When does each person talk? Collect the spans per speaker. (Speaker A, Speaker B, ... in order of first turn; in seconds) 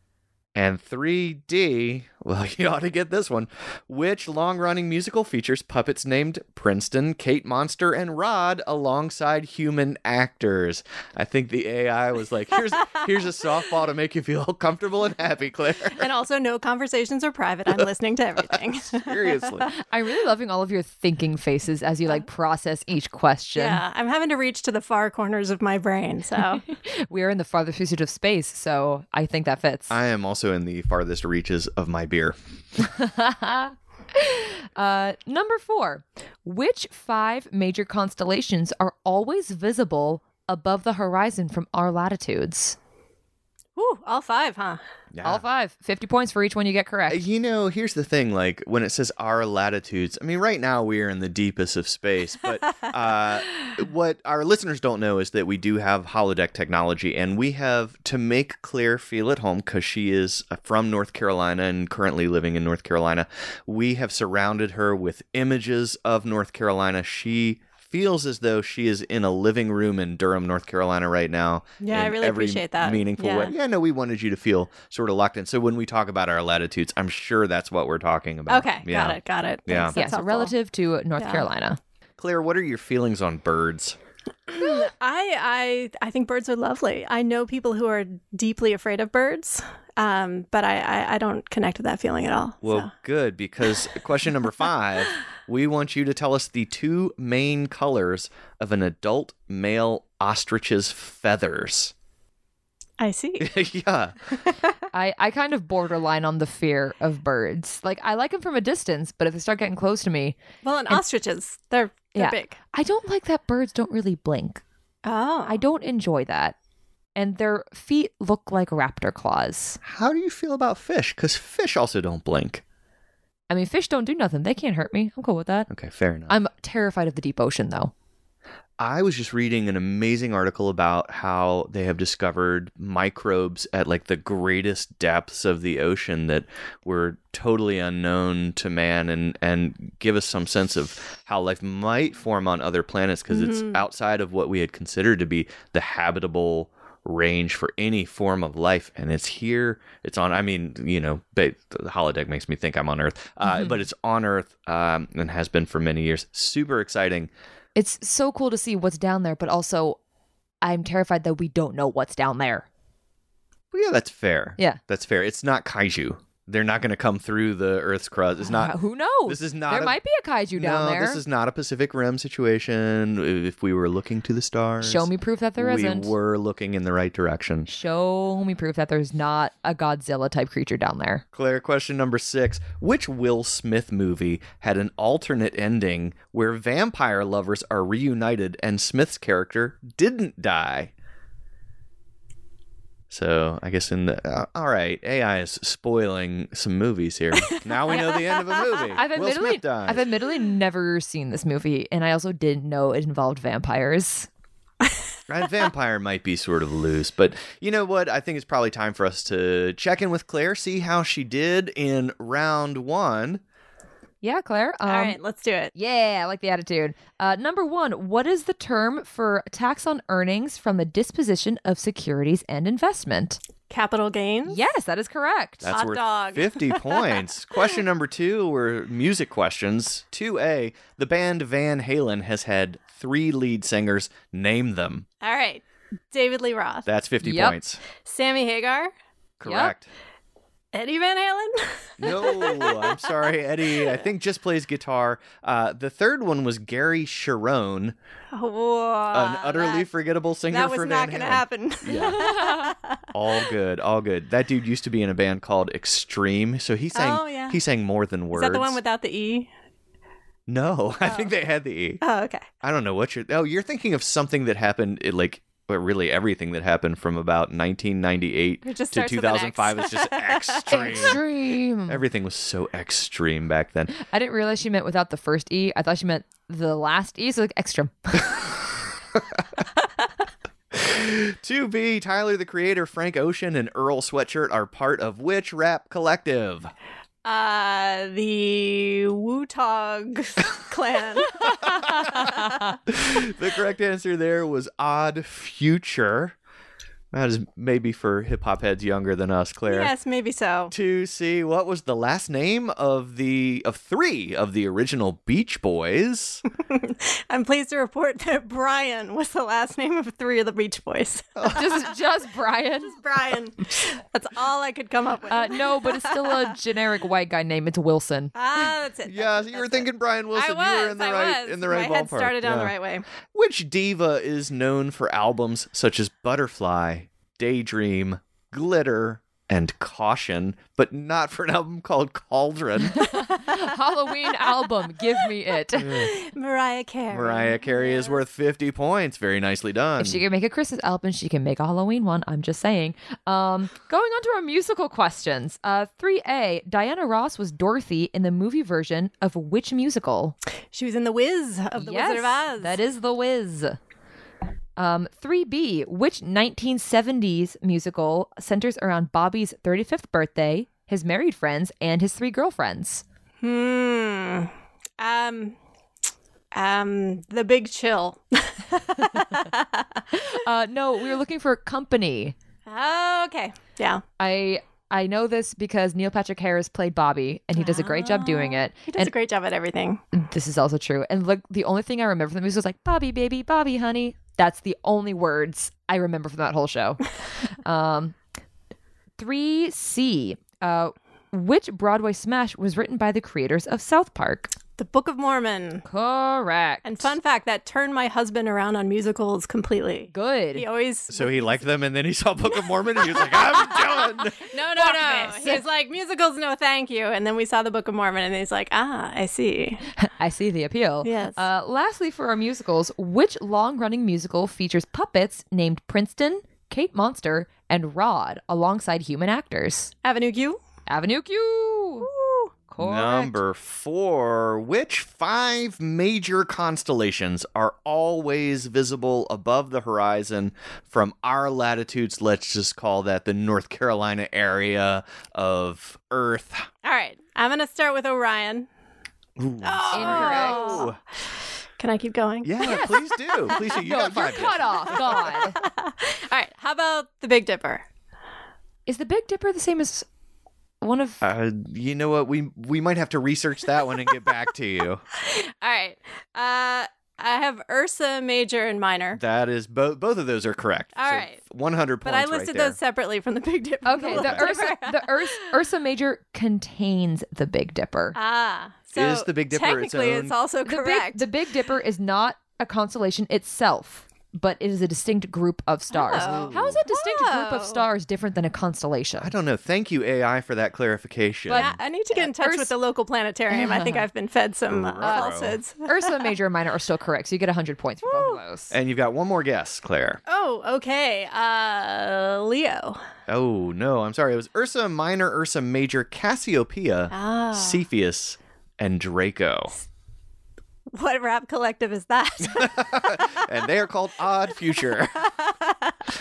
Speaker A: 0.5-16.1, 18.9-19.7, 29.9-32.3, 45.1-45.4, 47.1-80.0, 82.2-84.0, 92.6-101.9, 103.4-104.2, 119.8-122.6, 125.7-126.3, 128.8-157.3, 163.7-168.7, 169.2-170.0, 170.6-177.7, 181.3-190.9, 193.1-200.0, 205.3-213.4, 225.6-235.1, 236.8-237.8, 239.4-239.9, 242.0-247.9, 249.1-252.3, 253.1-258.8, 260.5-262.0, 262.6-271.2, 271.9-273.9, 280.7-286.7, 292.9-296.4, 297.1-299.9, 300.7-306.4, 311.4-311.7, 319.1-322.7, 323.3-333.1, 335.8-336.1, 337.1-340.2, 401.1-404.4, 422.8-436.7, 439.4-441.0, 442.4-445.1, 451.2-455.0, 459.1-462.8, 464.1-464.5, 468.9-470.3, 476.1-476.8, 479.2-481.7, 484.7-485.6, 488.7-490.2, 493.3-499.7, 502.4-505.3
Speaker B: 15.9-19.6, 23.5-26.6, 43.8-44.8, 71.8-73.5, 78.5-80.5, 81.2-81.5, 84.5-92.9, 103.0-103.5, 110.6-112.6, 115.0-115.6, 143.3-143.8, 197.9-198.8, 214.8-215.7, 223.7-224.6, 225.7-227.2, 235.2-236.8, 238.0-238.9, 240.7-243.2, 248.3-249.9, 250.5-253.1, 256.9-257.6, 258.3-259.5, 261.0-261.3, 262.0-262.4, 268.6-271.2, 287.2-292.7, 299.7-300.7, 306.7-311.7, 312.8-316.5, 318.3-323.0, 335.8-338.2, 350.7-352.8, 363.4-365.6, 366.5-370.0, 372.7-374.0, 377.6-380.0, 394.8-395.8, 396.8-401.6, 403.0-409.8, 411.0-411.4, 420.0-420.6, 422.0-422.5, 436.8-438.7, 439.6-440.9, 441.8-443.6, 444.9-447.8, 455.2-459.2, 460.9-461.4, 462.0-465.5, 468.1-471.3, 475.9-477.8, 481.5-486.3, 488.0-488.4, 490.3-493.0, 497.1-497.8, 500.9-503.4, 505.2-505.9
Speaker C: 19.8-23.8, 26.7-30.0, 32.8-42.8, 45.2-47.2, 79.9-81.8, 104.9-110.4, 112.1-114.6, 115.5-116.5, 117.2-119.8, 123.5-125.7, 126.3-127.9, 157.8-160.0, 160.6-162.7, 168.4-171.2, 174.8-176.1, 177.7-181.2, 198.9-204.3, 214.2-215.2, 215.7-223.4, 224.4-225.7, 237.2-237.6, 239.4-239.7, 251.9-252.7, 270.7-272.0, 273.9-278.3, 311.5-313.0, 315.3-318.7, 333.0-336.1, 340.0-350.4, 351.8-353.8, 354.8-363.0, 370.1-372.3, 374.2-379.1, 380.1-387.1, 387.6-388.1, 389.2-394.5, 395.9-397.1, 400.1-400.6, 404.7-405.6, 410.0-419.9, 420.9-422.1, 422.7-423.4, 439.9-440.9, 442.6-445.6, 448.9-450.1, 450.8-451.2, 463.8-468.2, 470.6-479.3, 481.5-482.7, 483.5-484.1, 485.0-485.3, 485.8-488.7